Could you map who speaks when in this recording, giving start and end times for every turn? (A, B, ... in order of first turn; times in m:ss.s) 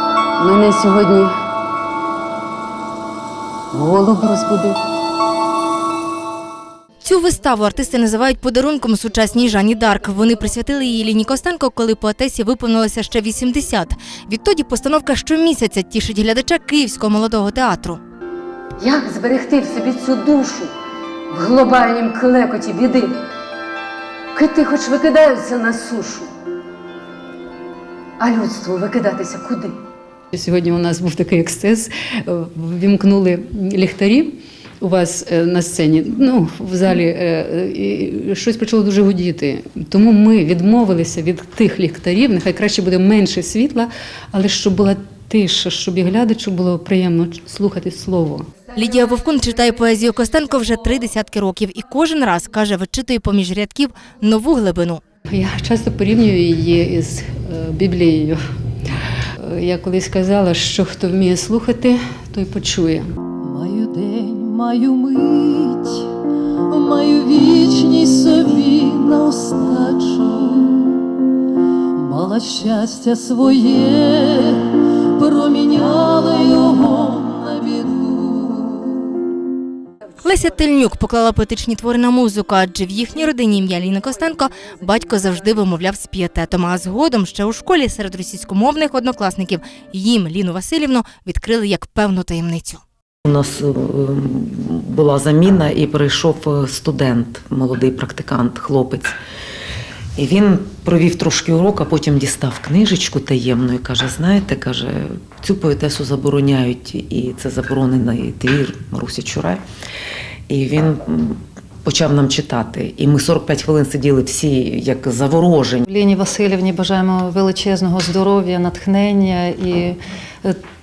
0:00.4-0:01.3 A
0:03.7-0:04.7 A
0:07.0-0:18.0 B
0:18.8-0:20.7 A
0:21.3-0:23.2 A
0:24.3-0:26.3 A
0:28.2-0:29.8 A
0:30.3-0:48.5 C
0:48.7-0:55.0 B
0:55.3-0:58.4 C
0:59.4-1:04.4 C
1:04.3-1:06.0 D
1:06.7-1:07.6 C
1:06.8-1:10.8 D
1:10.0-1:10.3 C
1:12.0-1:12.3 C
1:12.7-1:13.2 D
1:13.0-1:13.4 C
1:13.8-1:14.7 D
1:15.2-1:18.8 D
1:20.2-1:32.8 B
1:33.2-1:39.1 E
1:40.2-1:49.6 E
1:50.5-1:55.8 E
1:55.8-2:00.6 F